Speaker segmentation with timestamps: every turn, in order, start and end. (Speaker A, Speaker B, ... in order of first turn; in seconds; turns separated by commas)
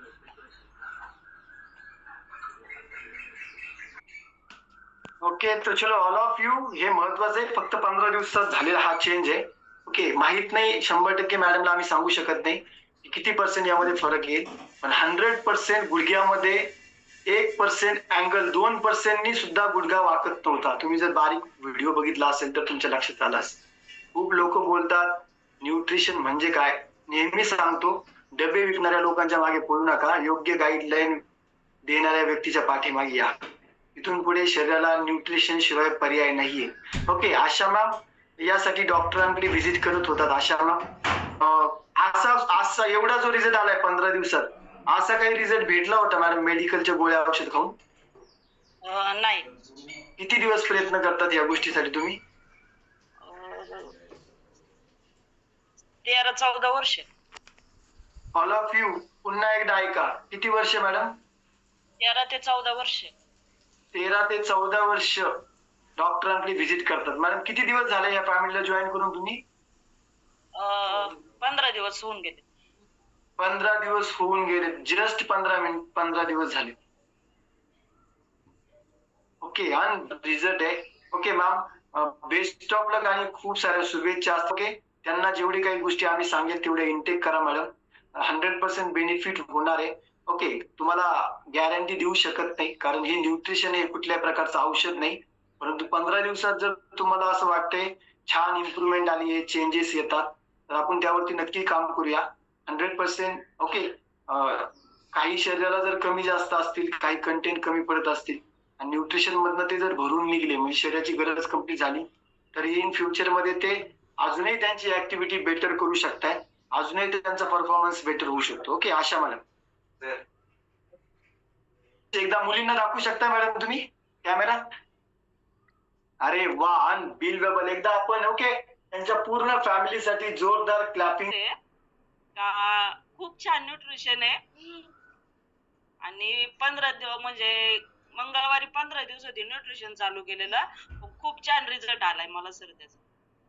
Speaker A: 5.2-16.7, Speaker A: 17.3-23.6, Speaker A: 24.1-31.2, Speaker A: 31.9-33.4, Speaker A: 33.9-47.8, Speaker B: 48.8-49.5, Speaker A: 50.2-52.2, Speaker B: 53.2-54.0, Speaker B: 56.0-57.1, Speaker A: 58.3-61.2, Speaker B: 62.0-63.1, Speaker A: 63.9-65.4, Speaker A: 66.0-69.4, Speaker B: 70.5-72.5, Speaker A: 73.4-76.8, Speaker A: 79.4-119.4, Speaker A: 122.1-124.6, Speaker A: 126.2-131.3, Speaker B: 131.3-131.6, Speaker B: 132.3-134.9, Speaker B: 136.0-143.0